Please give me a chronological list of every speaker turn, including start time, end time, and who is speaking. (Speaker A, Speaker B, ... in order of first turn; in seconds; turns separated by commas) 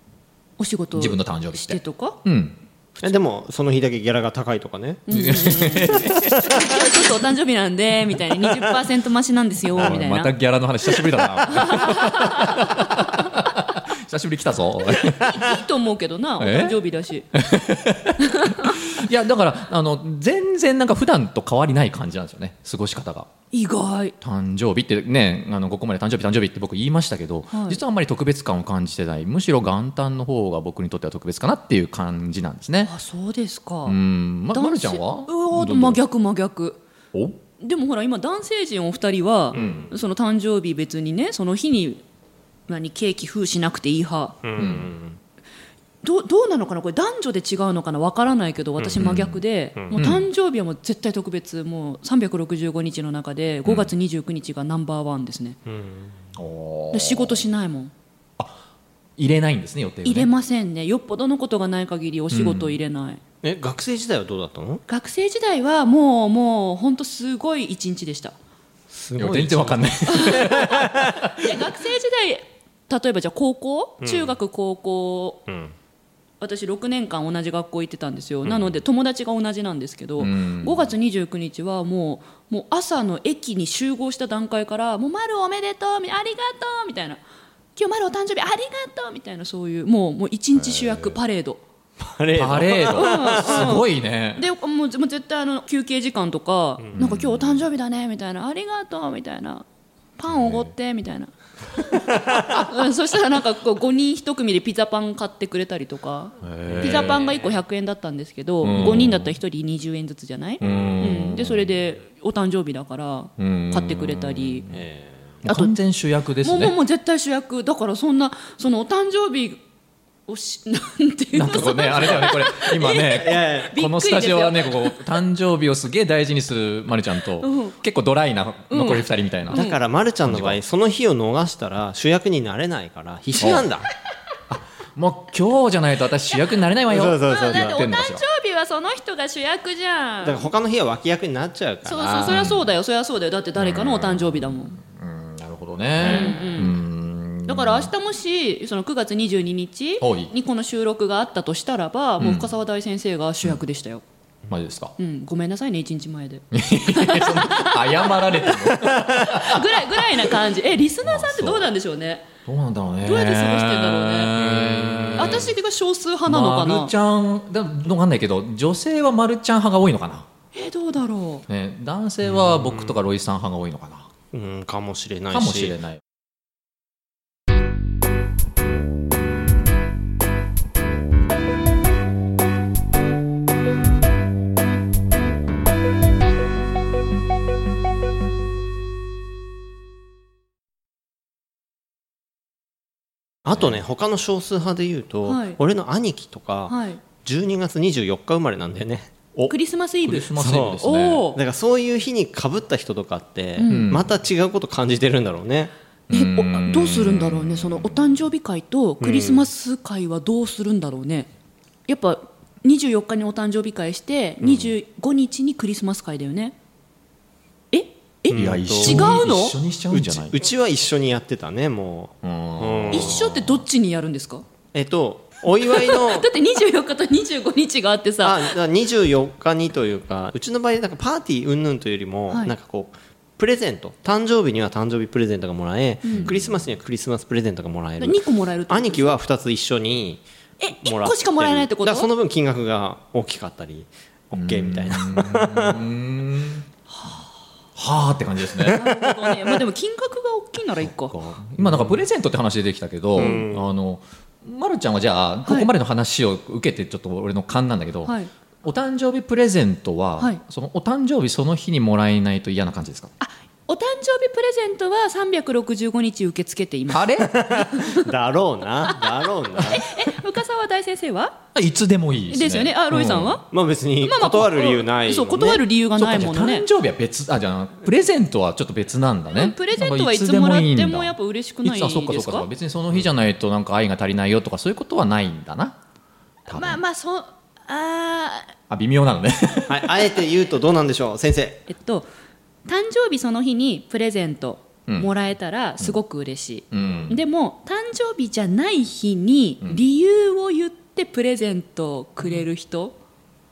Speaker A: 0.6-2.2, Speaker B: 0.9-3.1, Speaker C: 3.0-5.8, Speaker A: 5.1-10.3, Speaker B: 5.1-6.8, Speaker B: 8.2-8.7, Speaker B: 9.7-15.6, Speaker A: 11.5-13.3, Speaker A: 14.9-17.3, Speaker B: 16.4-16.8, Speaker B: 17.3-23.3, Speaker A: 18.2-18.8, Speaker A: 23.5-24.1, Speaker B: 24.2-32.9, Speaker A: 27.5-27.8, Speaker A: 32.8-34.0, Speaker B: 33.8-36.0, Speaker A: 34.5-36.8, Speaker B: 37.1-37.4, Speaker A: 37.6-42.0, Speaker C: 39.5-39.9, Speaker B: 39.5-39.9, Speaker A: 42.7-44.4, Speaker C: 44.4-45.2, Speaker B: 44.6-44.9, Speaker A: 46.0-55.6, Speaker C: 48.8-49.0, Speaker B: 49.0-49.4, Speaker B: 49.9-50.3, Speaker B: 53.6-53.9, Speaker C: 55.6-56.2, Speaker B: 56.4-57.4, Speaker A: 56.9-57.9, Speaker B: 59.2-60.3, Speaker A: 60.0-63.2, Speaker B: 62.3-62.8, Speaker C: 63.4-64.8, Speaker A: 64.9-68.3, Speaker C: 68.9-71.0, Speaker B: 69.2-71.5, Speaker A: 70.1-75.4, Speaker C: 74.0-74.4, Speaker C: 75.5-75.7, Speaker A: 76.4-87.2, Speaker B: 78.5-78.7, Speaker B: 80.2-80.9, Speaker A: 87.8-91.6, Speaker B: 90.8-91.0, Speaker C: 92.0-93.7, Speaker B: 92.3-94.4, Speaker A: 92.9-99.6, Speaker B: 97.0-97.7, Speaker A: 100.2-101.3, Speaker B: 100.3-100.7, Speaker C: 102.1-102.4, Speaker A: 102.3-114.7, Speaker B: 106.4-107.2, Speaker C: 106.8-107.4, Speaker B: 108.6-109.3, Speaker B: 110.6-111.7, Speaker B: 113.4-114.8, Speaker C: 114.7-115.2, Speaker B: 115.4-116.7, Speaker A: 115.5-115.7, Speaker A: 116.4-119.6, Speaker A: 120.3-124.9, Speaker B: 121.3-129.6, Speaker C: 123.1-123.7, Speaker A: 127.4-127.8, Speaker A: 128.7-129.8, Speaker C: 129.5-133.8, Speaker B: 130.2-130.6, Speaker B: 133.4-133.7, Speaker B: 134.5-138.2, Speaker C: 136.9-137.8, Speaker A: 137.2-140.5, Speaker C: 140.2-142.3, Speaker A: 141.8-144.8, Speaker B: 142.2-142.6, Speaker B: 143.6-147.9, Speaker A: 146.0-146.8, Speaker A: 147.4-154.0, Speaker B: 150.0-150.3, Speaker B: 152.2-152.5, Speaker B: 154.5-154.9, Speaker A: 155.0-158.5, Speaker B: 156.5-159.8, Speaker A: 159.2-162.3, Speaker B: 161.0-161.7, Speaker B: 162.4-165.5, Speaker A: 163.0-164.4, Speaker C: 164.6-165.3, Speaker A: 165.2-166.9, Speaker B: 166.2-170.3, Speaker A: 170.5-171.4, Speaker B: 171.5-174.1, Speaker C: 172.3-172.9, Speaker C: 174.3-175.8, Speaker B: 175.3-176.0, Speaker C: 193.4-199.1, Speaker A: 195.2-195.6, Speaker A: 196.7-197.0, Speaker B: 199.3-201.2, Speaker A: 199.5-201.4, Speaker C: 200.3-205.7, Speaker A: 203.6-203.9, Speaker B: 203.7-204.1, Speaker B: 206.1-208.2, Speaker A: 206.1-211.3, Speaker C: 209.0-209.5, Speaker A: 211.9-216.5, Speaker C: 214.4-214.7, Speaker A: 217.7-219.6, Speaker C: 218.3-219.2, Speaker B: 218.3-220.4, Speaker C: 219.9-223.2, Speaker B: 222.2-223.6, Speaker A: 222.9-224.4, Speaker C: 224.7-226.3, Speaker A: 225.6-228.5, Speaker C: 228.2-240.2, Speaker A: 236.0-236.3, Speaker B: 236.1-236.5, Speaker A: 238.0-239.1, Speaker A: 240.6-242.1, Speaker C: 240.8-245.8, Speaker B: 244.3-246.6, Speaker A: 246.9-247.3, Speaker B: 247.8-248.8, Speaker C: 248.7-249.0, Speaker A: 248.7-251.1, Speaker B: 250.8-263.1, Speaker C: 251.6-252.0, Speaker C: 253.2-253.7, Speaker A: 258.0-258.3, Speaker A: 263.2-268.1, Speaker B: 266.9-267.7, Speaker C: 267.3-270.1, Speaker A: 268.9-271.4, Speaker B: 271.5-273.4, Speaker A: 272.3-273.4, Speaker C: 273.5-275.6, Speaker A: 274.0-276.6, Speaker B: 276.0-285.8, Speaker A: 279.3-282.5, Speaker B: 286.5-286.8, Speaker A: 286.5-288.5, Speaker B: 288.7-290.1, Speaker C: 289.7-291.6, Speaker A: 291.7-292.1, Speaker A: 292.7-303.0, Speaker B: 296.7-297.2